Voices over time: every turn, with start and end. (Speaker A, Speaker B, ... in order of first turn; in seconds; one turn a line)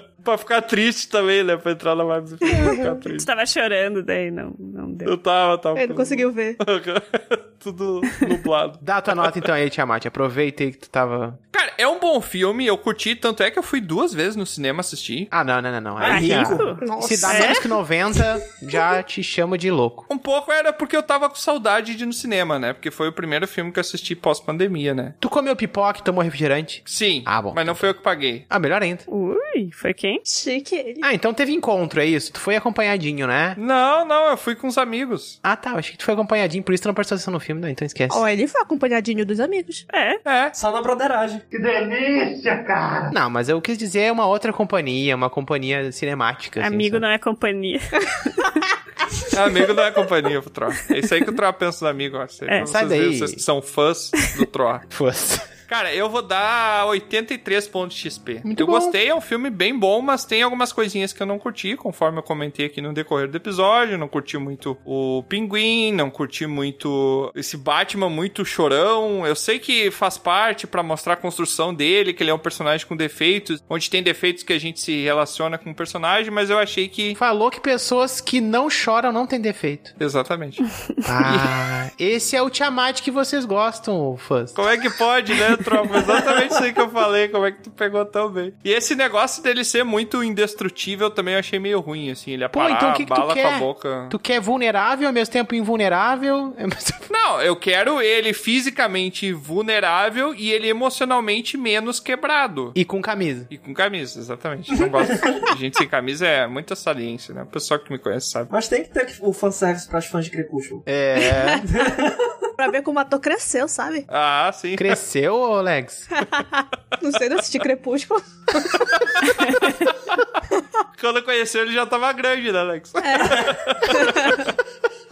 Speaker A: 0.2-3.3
Speaker B: 2.5-3.0
Speaker C: 3.1-5.1
Speaker A: 5.0-9.3
Speaker B: 5.7-6.6
Speaker D: 8.8-11.4
Speaker A: 11.5-15.3
Speaker D: 15.3-20.1
Speaker E: 16.0-16.8
Speaker C: 16.0-17.6
Speaker B: 16.8-17.7
Speaker A: 20.1-25.1
Speaker D: 25.2-27.9
Speaker A: 26.9-28.4
Speaker D: 28.5-29.0
Speaker C: 29.1-30.2
Speaker B: 30.2-31.1
Speaker D: 31.0-33.6
Speaker A: 33.6-35.4
Speaker D: 35.4-38.2
Speaker B: 38.1-39.8
Speaker C: 39.9-40.2
Speaker A: 40.2-40.5
Speaker E: 40.5-41.5
Speaker D: 41.5-41.8
Speaker D: 43.1-47.0
Speaker C: 46.6-48.6
Speaker A: 49.3-54.9
Speaker D: 52.7-53.4
Speaker D: 54.9-55.5
Speaker A: 55.7-77.2
Speaker D: 58.4-59.0
Speaker D: 77.2-80.0
Speaker A: 80.0-80.7
Speaker D: 81.0-84.7
Speaker A: 81.2-81.5
Speaker A: 84.5-94.2
Speaker D: 92.5-97.1
Speaker A: 97.1-102.8
Speaker D: 102.7-103.5
Speaker A: 103.5-108.5
Speaker E: 104.7-105.4
Speaker E: 108.5-110.8
Speaker D: 110.8-111.7
Speaker B: 111.2-111.7
Speaker E: 111.7-112.3
Speaker B: 112.6-114.0
Speaker A: 114.1-115.0
Speaker D: 114.8-116.1
Speaker B: 116.1-118.9
Speaker B: 119.5-119.7
Speaker A: 121.0-124.5
Speaker B: 123.0-124.4